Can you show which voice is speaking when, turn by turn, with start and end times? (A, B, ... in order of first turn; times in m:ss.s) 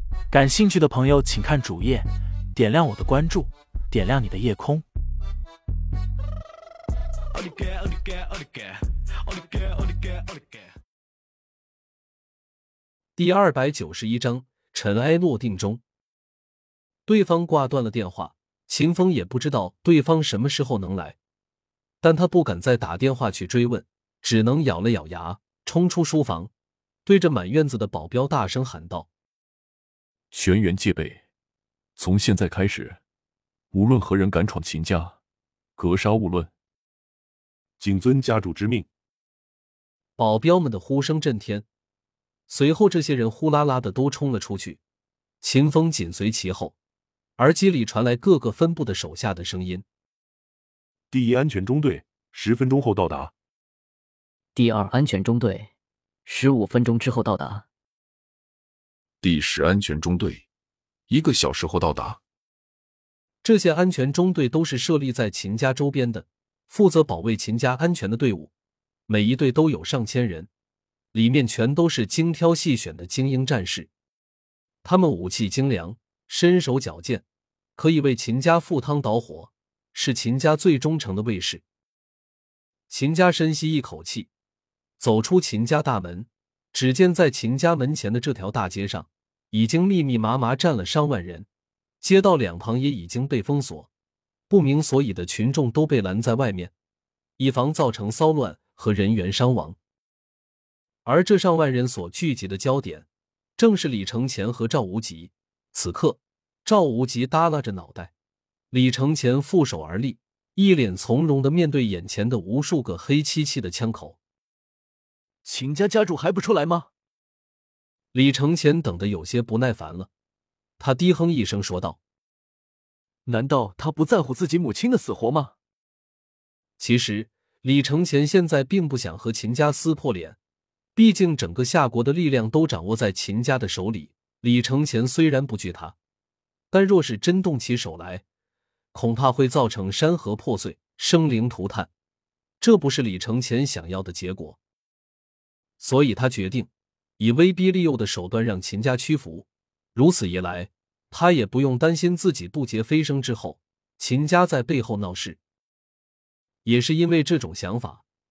0:00.3-0:04.8 A
0:07.4-0:08.7 A
0:09.4-0:10.1 A
0:13.2-0:15.8 B
0:17.0-0:21.2 B
0:22.0-0:26.5 B
0:27.0-0:29.1 B
0:30.3-0:31.2 C
0:32.0-0:33.0 C
0:32.3-0:32.7 D
0:33.7-0:35.1 C
0:35.8-0:36.5 C
0:37.8-0:38.9 E
0:40.2-0:41.6 B
0:42.5-0:44.8 B
0:45.4-0:46.7 B
0:47.4-0:49.8 B
0:51.1-0:53.3 E
0:54.6-0:55.7 F
0:56.3-0:57.6 F
0:59.2-1:00.4 G
1:01.1-1:02.2 G
1:03.4-1:08.5 B
1:09.1-1:10.5 B
1:11.1-1:13.9 B
1:14.8-1:17.2 B
1:17.8-1:21.6 B
1:22.9-1:24.3 B
1:25.0-1:31.5 B
1:32.0-1:33.9 B
1:34.5-1:36.7 B
1:37.4-1:39.8 B
1:41.0-1:48.1 B
1:48.7-1:54.2 B
1:55.4-1:56.9 D
1:58.1-2:00.1 B
2:00.8-2:02.0 B
2:03.2-2:05.5 D
2:06.8-2:10.4 B
2:10.9-2:15.9 B
2:16.7-2:18.2 B
2:18.9-2:21.9 B
2:22.6-2:24.6 B
2:25.8-2:35.4 B
2:36.6-2:38.0 B